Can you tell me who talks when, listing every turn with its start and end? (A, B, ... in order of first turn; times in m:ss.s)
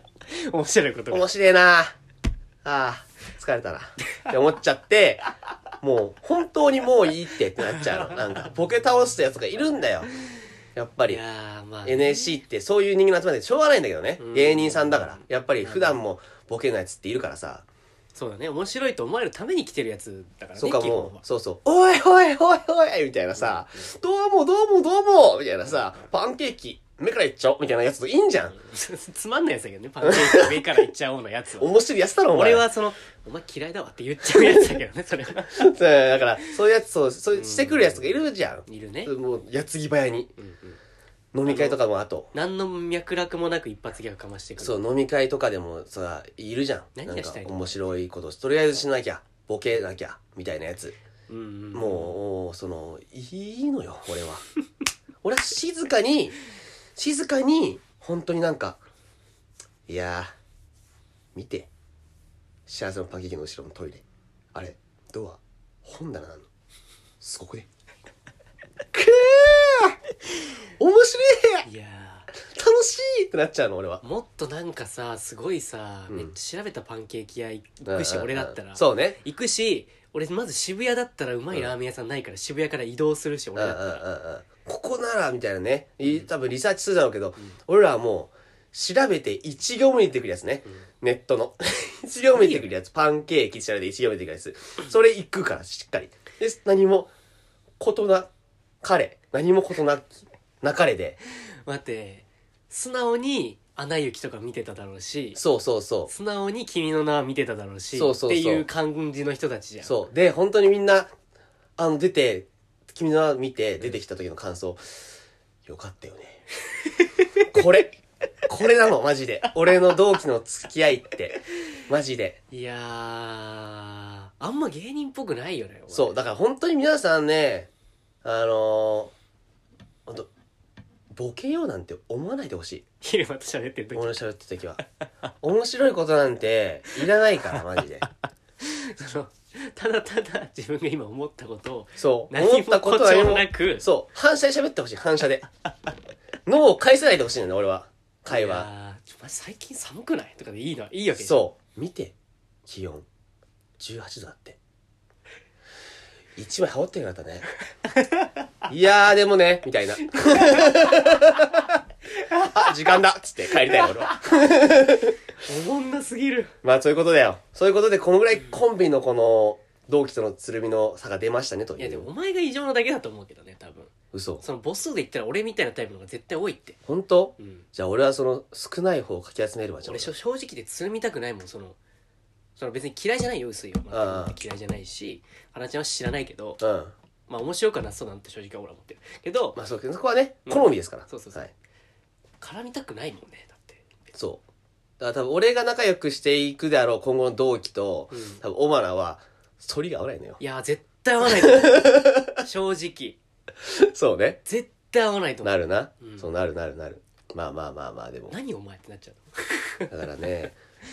0:00.3-0:01.3 A
0:01.1-0:02.0 B
0:02.6-0:05.3 B
0:05.8-0:10.1 B
0:07.7-0:08.2 A
0:10.8-0:11.2 B
0:11.1-0:12.4 A
0:11.8-0:17.7 B
0:14.2-0:16.0 A
0:18.1-0:21.2 A
0:20.6-0:28.6 B
0:23.4-0:23.9 A
0:28.5-0:31.7 A
0:30.0-0:30.8 B
0:31.6-0:32.6 B
0:32.3-0:35.7 A
0:34.3-0:34.8 B
0:35.5-0:40.3 B
0:37.3-0:38.0 A
0:38.7-0:39.1 A
0:40.4-0:40.8 A
0:41.3-0:42.3 B
0:41.5-0:41.8 A
0:42.3-0:44.8 A
0:44.6-0:51.0 B
0:47.0-0:47.8 A
0:51.3-0:52.2 A
0:51.7-0:54.4 B
0:55.2-0:56.4 B
0:57.0-0:58.8 B
0:59.9-1:00.3 B
1:01.4-1:01.7 B
1:02.7-1:06.4 B
1:07.2-1:07.7 B
1:08.9-1:10.0 B
1:10.8-1:11.7 B
1:11.6-1:12.3 A
1:12.4-1:14.0 B
1:14.0-1:24.0 A
1:17.9-1:19.2 B
1:23.6-1:37.1 B
1:32.3-1:32.7 A
1:37.8-1:38.3 B
1:38.8-1:41.2 B
1:41.6-1:45.4 A
1:45.4-1:46.1 B
1:46.1-1:50.0 A
1:48.0-1:48.7 B
1:49.8-1:51.1 B
1:51.8-1:55.1 B
1:55.7-1:56.4 B
1:56.8-1:57.4 A
1:57.5-2:02.4 B
2:02.5-2:06.2 A
2:05.9-2:07.7 B
2:08.2-2:09.1 B
2:11.1-2:12.8 B
2:13.0-2:14.2 A
2:14.0-2:14.8 B
2:15.4-2:18.1 B
2:18.6-2:23.9 A
2:22.0-2:25.5 B
2:26.5-2:28.7 B
2:28.3-2:31.4 A
2:31.2-2:32.2 B
2:32.7-2:33.1 B
2:33.8-2:34.6 B
2:36.4-2:37.5 B
2:37.8-2:38.4 A
2:38.7-2:41.8 B
2:40.1-2:43.0 A
2:42.3-2:45.2 B
2:43.5-2:44.2 A
2:45.4-2:46.5 A
2:46.6-2:52.1 B
2:51.8-2:56.8 A
2:54.1-2:54.4 B
2:56.9-3:00.1 B
2:57.4-2:57.6 A
2:59.8-3:01.8 A
3:02.6-3:06.6 A
3:03.9-3:04.4 B
3:06.6-3:06.9 B
3:07.3-3:09.6 A
3:09.6-3:11.5 B
3:10.5-3:11.5 A
3:12.4-3:13.8 A
3:14.1-3:14.4 B
3:15.0-3:20.4 B
3:18.1-3:18.4 A
3:20.4-3:23.2 A
3:21.2-3:22.4 B
3:23.6-3:24.4 B
3:24.4-3:26.3 A
3:25.4-3:28.4 B
3:28.3-3:29.9 A
3:29.9-3:30.6 B